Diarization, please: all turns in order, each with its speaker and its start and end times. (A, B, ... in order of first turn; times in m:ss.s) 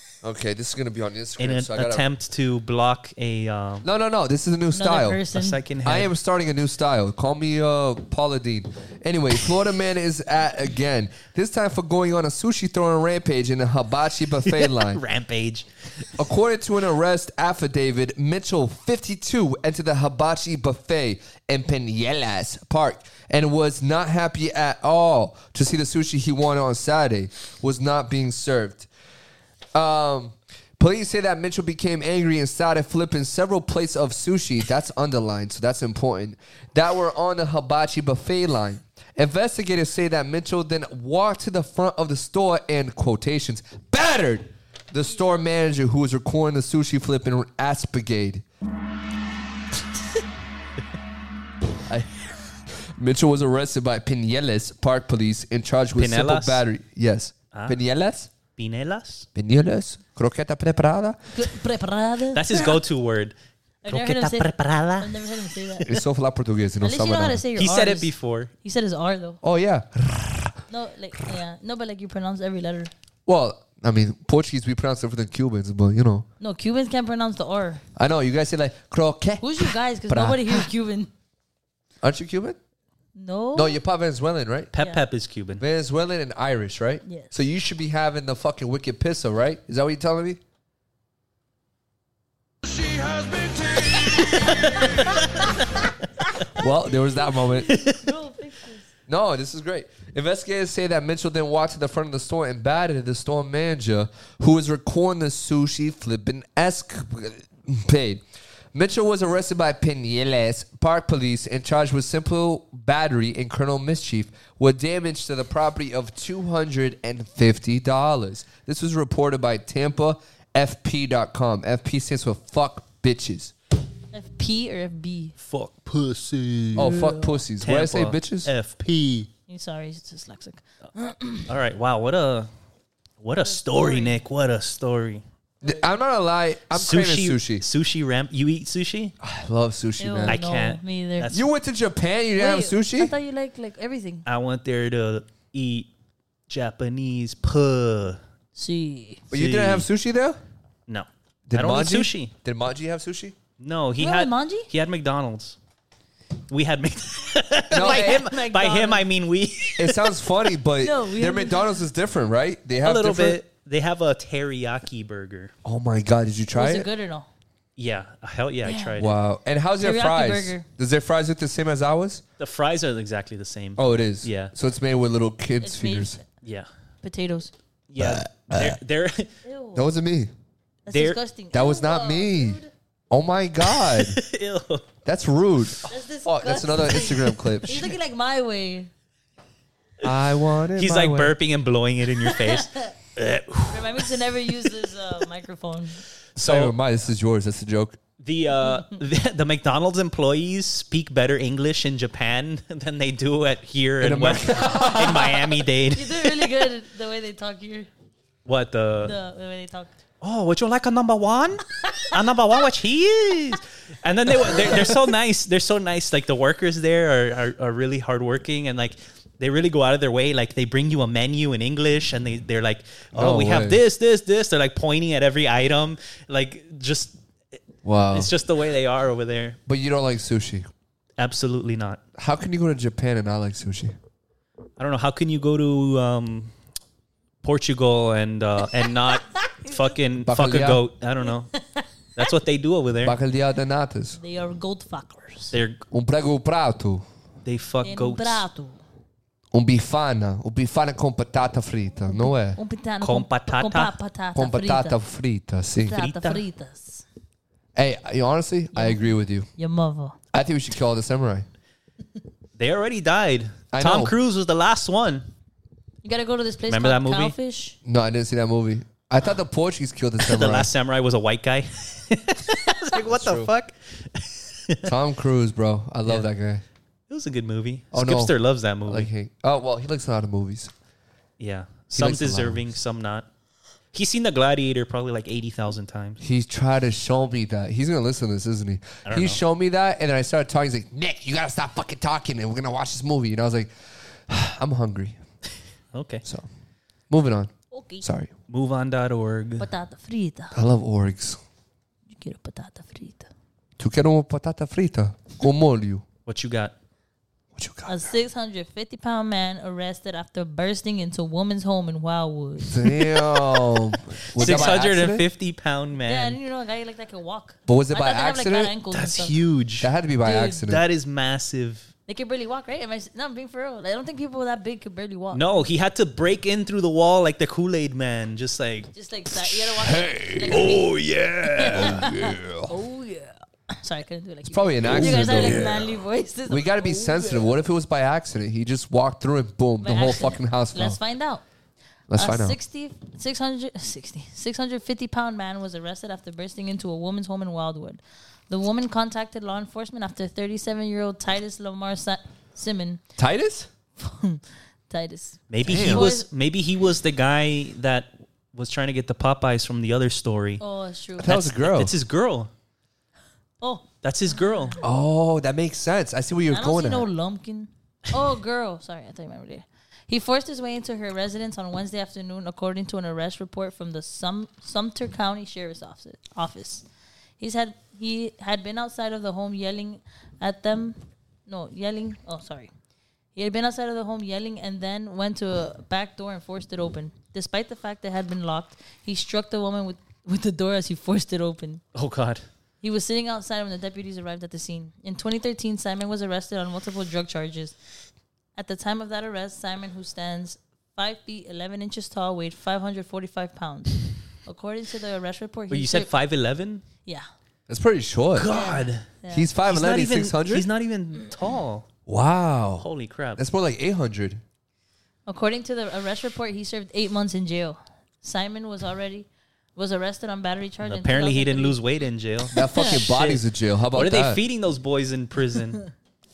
0:00.2-0:02.1 A
0:01.4-0:03.8 B
0:03.8-0:05.2 A
0:04.7-0:05.6 C
0:05.3-0:06.1 B
0:05.8-0:15.0 A
0:14.4-0:16.1 B
0:16.2-0:28.9 A
0:29.7-0:48.4 A
0:52.7-0:58.3 A
0:56.0-0:56.6 B
0:57.5-0:57.8 B
0:58.6-0:59.3 B
0:59.3-1:01.2 A
1:01.3-1:02.7 C
1:02.3-1:03.3 B
1:03.8-1:05.9 C
1:03.9-1:05.1 B
1:05.8-1:07.4 A
1:06.8-1:09.4 C
1:07.6-1:08.5 B
1:09.4-1:10.6 A
1:10.7-1:12.9 C
1:13.2-1:16.2 A
1:16.4-1:17.8 C
1:18.0-1:20.7 A
1:19.4-1:21.1 C
1:22.0-1:22.6 A
1:23.2-1:23.8 C
1:23.5-1:24.7 A
1:24.7-1:25.6 B
1:25.6-1:30.4 A
1:27.0-1:27.3 C
1:32.9-1:35.4 B
1:34.2-1:35.5 C
1:36.5-1:37.8 A
1:37.3-1:38.9 C
1:37.7-1:38.0 B
1:39.1-1:48.2 A
1:48.7-2:03.5 A
2:04.1-2:05.3 C
2:05.4-2:07.0 B
2:06.7-2:08.5 A
2:06.8-2:07.3 C
2:07.6-2:09.3 B
2:09.5-2:11.5 C
2:11.5-2:12.5 B
2:13.2-2:15.2 B
2:13.4-2:14.2 C
2:15.6-2:17.6 A
2:16.7-2:19.1 B
2:19.2-2:20.4 A
2:20.0-2:21.3 C
2:20.3-2:21.4 B
2:21.3-2:23.1 A
2:22.4-2:24.2 C
2:24.2-2:25.9 B
2:26.5-2:28.2 B
2:28.6-2:29.2 C
2:29.3-2:30.4 A
2:29.3-2:29.9 B
2:30.9-2:32.3 B
2:31.5-2:33.4 A
2:33.6-2:35.6 B
2:34.0-2:34.7 C
2:36.5-2:40.1 B
2:37.7-2:38.2 A
2:37.8-2:39.0 C
2:39.8-2:43.4 A
2:40.8-2:41.7 C
2:42.8-2:45.5 B
2:45.6-2:46.9 A
2:46.5-2:47.3 C
2:47.8-2:49.2 B
2:48.6-2:49.0 C
2:49.0-2:52.2 A
2:49.8-2:50.6 C
2:52.4-2:54.5 B
2:53.8-2:56.2 A
2:55.6-2:56.2 C
2:56.4-2:56.7 B
2:57.0-2:57.5 C
2:57.9-2:59.3 B
2:58.0-2:58.8 A
2:59.4-2:59.9 C
2:59.7-3:00.3 A
3:00.8-3:02.7 C
3:00.9-3:01.2 B
3:01.5-3:02.6 A
3:03.1-3:04.2 A
3:03.7-3:04.8 B
3:05.0-3:07.9 A
3:05.9-3:08.9 C
3:10.0-3:11.4 A
3:10.8-3:14.7 B
3:12.3-3:12.9 C
3:13.7-3:16.0 C
3:16.4-3:16.8 B
3:16.4-3:18.0 A
3:18.2-3:26.5 B
3:24.0-3:25.4 A
3:25.9-3:27.9 C
3:28.4-3:29.1 B
3:29.0-3:29.9 C
3:30.2-3:47.2 B
3:43.1-3:43.8 A
3:47.8-3:48.3 A
3:48.1-3:49.6 B
3:49.7-3:50.7 A
3:51.2-3:52.0 B
3:52.2-3:53.9 A
3:54.8-3:56.5 B
3:57.4-4:01.5 B
4:00.2-4:00.8 A
4:01.6-4:01.8 C
4:02.2-4:03.2 B
4:03.0-4:04.2 A
4:04.2-4:05.5 C
4:05.5-4:05.8 B
4:05.9-4:07.0 A
4:07.4-4:08.4 B
4:07.8-4:08.8 C
4:09.5-4:12.6 A
4:12.1-4:15.0 C
4:13.0-4:13.9 B
4:14.3-4:16.0 A
4:15.9-4:17.0 C
4:15.9-4:16.4 B
4:17.7-4:19.5 A
4:18.7-4:20.2 C
4:20.3-4:21.5 A
4:22.6-4:25.3 B
4:23.7-4:24.1 A
4:26.0-4:27.8 C
4:26.7-4:27.3 B
4:27.8-4:30.7 A
4:30.2-4:34.9 B
4:33.0-4:33.5 A
4:34.8-4:36.6 A
4:37.1-4:39.1 B
4:37.9-4:38.3 A
4:38.8-4:40.7 A
4:41.4-4:43.3 B
4:41.9-4:42.7 A
4:43.9-4:46.2 B
4:46.2-4:53.7 A
4:49.0-4:49.4 B
4:54.3-4:55.2 A
4:55.9-4:56.2 B
4:57.1-4:58.3 A
4:57.7-4:58.0 C
4:58.5-4:59.6 B
4:59.6-5:00.6 C
5:00.5-5:01.4 A
5:02.1-5:03.3 C
5:03.8-5:06.0 A
5:06.2-5:06.7 B
5:07.5-5:08.2 A
5:07.8-5:12.7 C
5:12.7-5:15.2 A
5:14.3-5:16.4 B
5:16.0-5:19.4 C
5:17.7-5:18.7 A
5:18.9-5:19.9 B
5:19.8-5:20.8 A
5:20.2-5:20.6 C
5:20.6-5:21.9 B
5:22.1-5:25.6 C
5:25.3-5:28.9 B
5:28.9-5:30.9 C
5:29.3-5:32.7 A
5:30.5-5:31.9 B
5:31.6-5:37.5 C
5:34.4-5:36.0 A
5:35.0-5:35.7 B
5:36.5-5:41.0 A
5:39.8-5:41.4 C
5:42.1-5:42.6 A
5:42.2-5:53.0 C
5:53.2-5:53.7 A
5:54.0-5:56.2 C
5:55.5-6:00.6 B
5:55.6-5:56.1 A
6:00.6-6:01.3 C
6:01.2-6:01.9 A
6:01.2-6:02.5 B
6:03.6-6:04.8 C
6:04.0-6:04.8 B
6:04.8-6:07.1 A
6:06.5-6:16.8 C
6:17.4-6:22.7 C
6:23.3-6:31.8 C
6:31.9-6:32.4 B
6:32.8-6:37.8 C
6:38.6-6:46.1 C
6:45.7-6:46.8 B
6:47.7-6:48.5 A
6:48.3-6:49.0 B
6:48.5-6:49.5 C
6:49.3-6:50.7 A
6:49.7-6:51.8 B
6:52.1-6:54.4 A
6:52.8-6:53.4 B
6:55.3-7:01.8 C
7:00.8-7:05.8 B
7:02.5-7:04.4 A